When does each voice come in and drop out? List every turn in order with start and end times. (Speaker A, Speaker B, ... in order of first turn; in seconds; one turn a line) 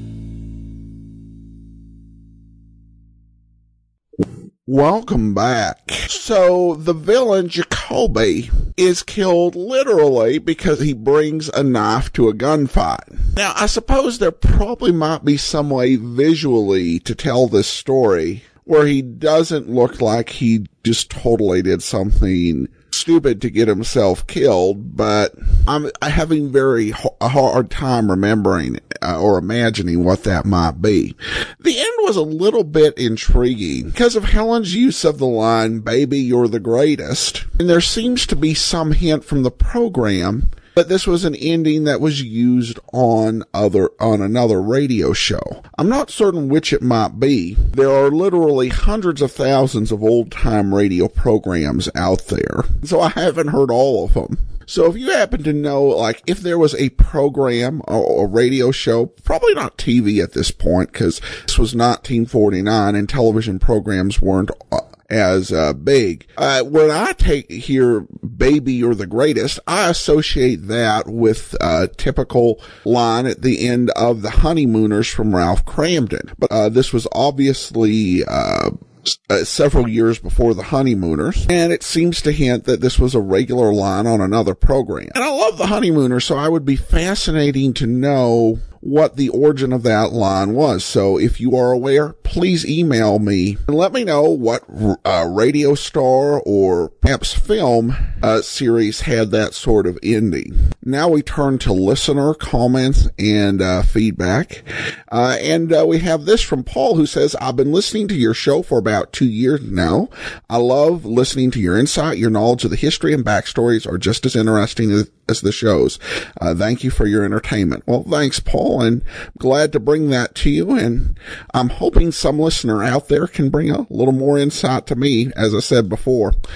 Speaker A: 4.7-126.3